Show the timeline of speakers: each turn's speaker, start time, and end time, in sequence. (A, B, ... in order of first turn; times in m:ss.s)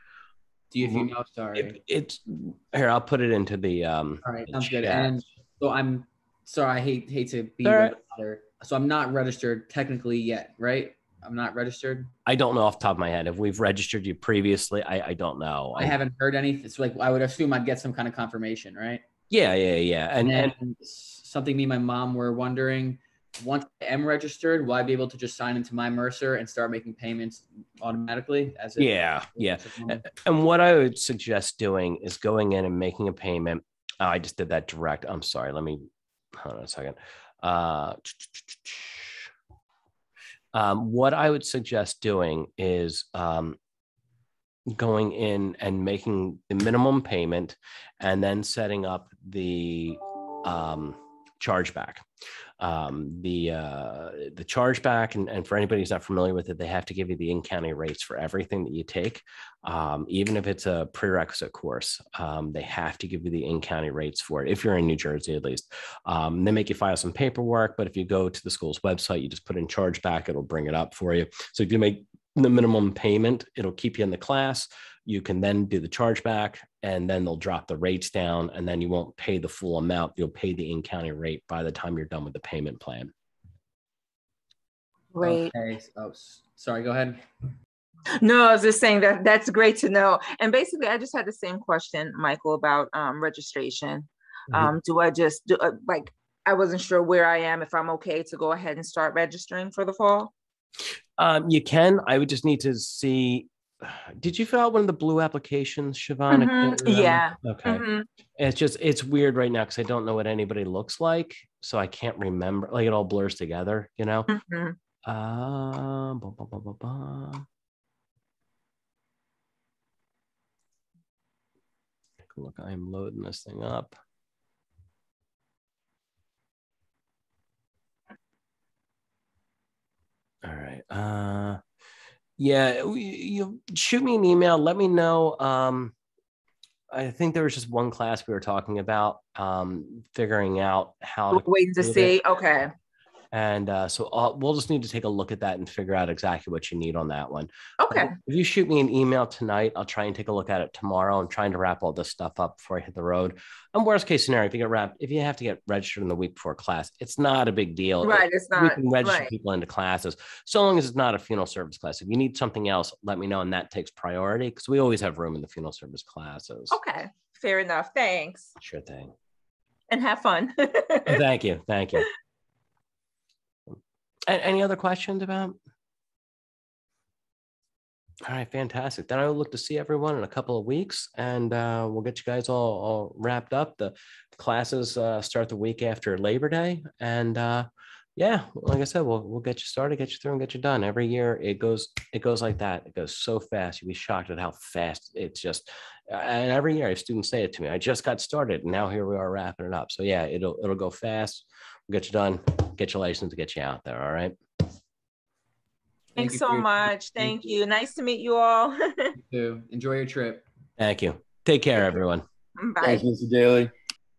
0:00.7-0:01.8 A
0:00.9-0:05.2 B
0:04.2-0:12.1 A
0:07.6-0:08.0 B
0:12.3-0:16.0 B
0:15.8-0:19.0 A
0:19.3-0:20.6 B
0:20.2-0:30.0 A
0:28.8-0:39.3 B
0:40.5-0:43.6 B
0:44.7-0:52.0 B
0:52.6-1:23.1 B
1:25.1-1:25.5 C
1:25.2-1:27.2 A
1:28.2-1:40.3 C
1:41.2-1:47.8 B
1:46.3-1:48.1 C
1:48.4-1:54.3 B
1:54.3-1:54.8 C
1:55.1-1:57.5 B
2:02.3-2:04.0 B
2:10.4-2:11.6 B
2:12.4-2:16.0 B
2:16.9-2:22.2 B
2:21.3-2:22.7 C
2:23.3-2:46.8 B
2:27.8-2:28.1 C
2:38.0-2:39.3 C
2:46.7-2:48.5 C
2:48.6-2:49.1 B
2:49.9-2:51.2 C
2:51.0-2:52.1 B
2:53.7-2:55.6 B
2:58.3-3:24.4 B
3:26.1-3:27.5 A
3:26.2-3:29.2 C
3:29.2-3:30.5 A
3:30.8-3:32.2 B
3:32.6-3:33.0 C
3:32.8-3:33.7 A